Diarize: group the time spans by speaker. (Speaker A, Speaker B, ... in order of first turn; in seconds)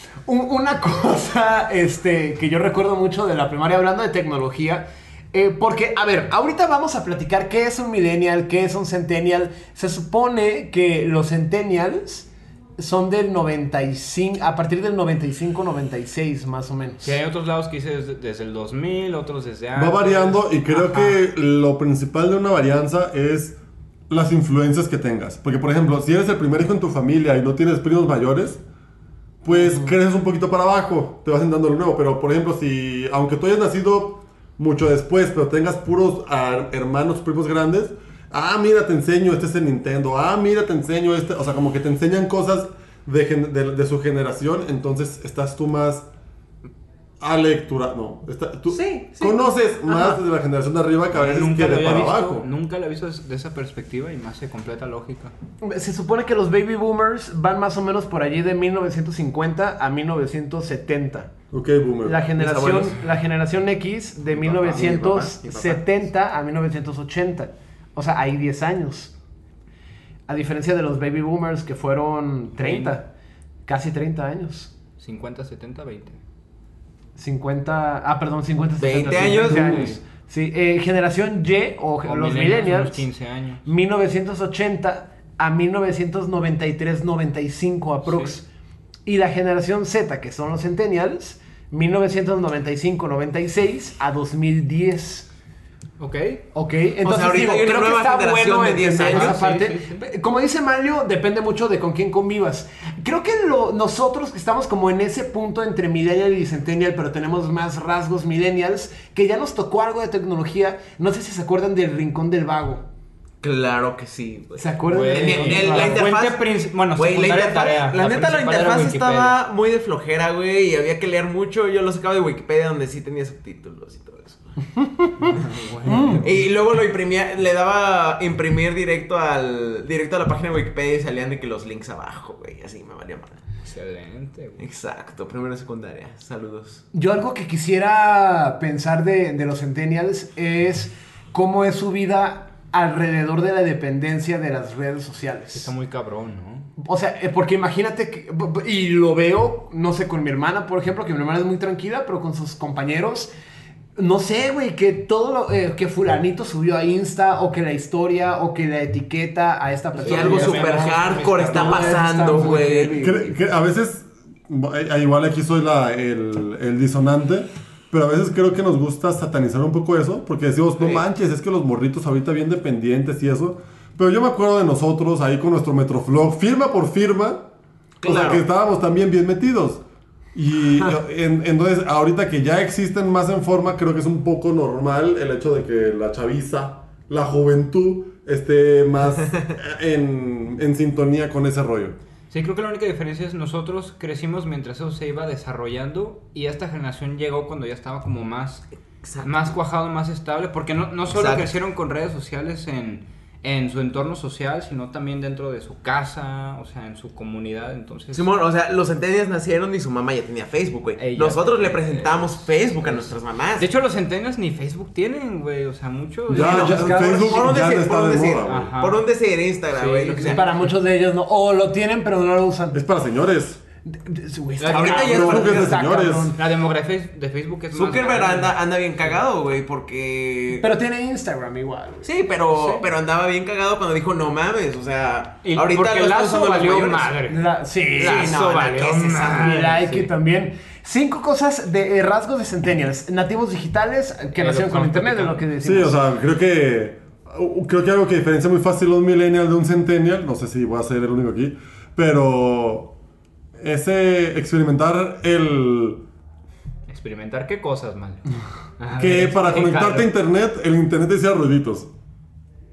Speaker A: 0.3-17.1, 29.5-29.9, 55.6-61.3, 62.0-69.1, 70.3-73.1, 73.7-74.7, 77.2-83.1, 83.7-88.5, 89.1-95.3, 96.5-112.8, 114.6-116.1, 124.8-125.1, 125.9-126.3, 136.9-145.7, 146.8-153.3, 154.0-163.4, 216.3-217.6, 220.1-222.8, 223.9-226.4, 230.6-232.1, 237.3-246.0
Speaker B: 17.0-21.1, 51.1-55.3, 72.6-73.0, 75.0-76.2, 79.2-80.0, 82.0-83.6, 88.0-88.4, 96.0-96.4, 99.0-100.1, 114.9-119.4, 125.2-126.5, 133.6-134.6, 145.5-146.7, 159.9-162.5, 192.3-198.7, 199.2-208.3, 211.0-217.0, 218.4-219.0, 219.7-220.7, 224.6-225.4, 226.3-228.5, 232.5-232.9, 235.4-237.4, 238.0-240.1, 244.4-245.4, 256.9-258.2, 258.8-260.1
Speaker C: 19.8-23.6, 24.1-28.6, 29.4-46.1, 47.2-52.5, 61.5-62.2, 163.0-177.4, 178.0-179.8, 180.3-192.0, 216.3-218.7, 222.7-223.6, 225.1-226.3, 245.6-252.9, 253.6-256.0, 259.0-261.9
Speaker D: 48.7-49.3, 62.4-63.0, 64.3-65.8, 78.8-79.9, 97.0-99.4, 113.4-124.5, 126.2-133.4, 134.6-136.8, 160.0-163.0, 170.8-171.0, 178.0-178.4, 199.0-199.4, 201.1-201.5, 208.1-213.7, 217.2-220.4, 224.7-225.8, 227.7-230.7, 232.0-237.1, 238.0-239.8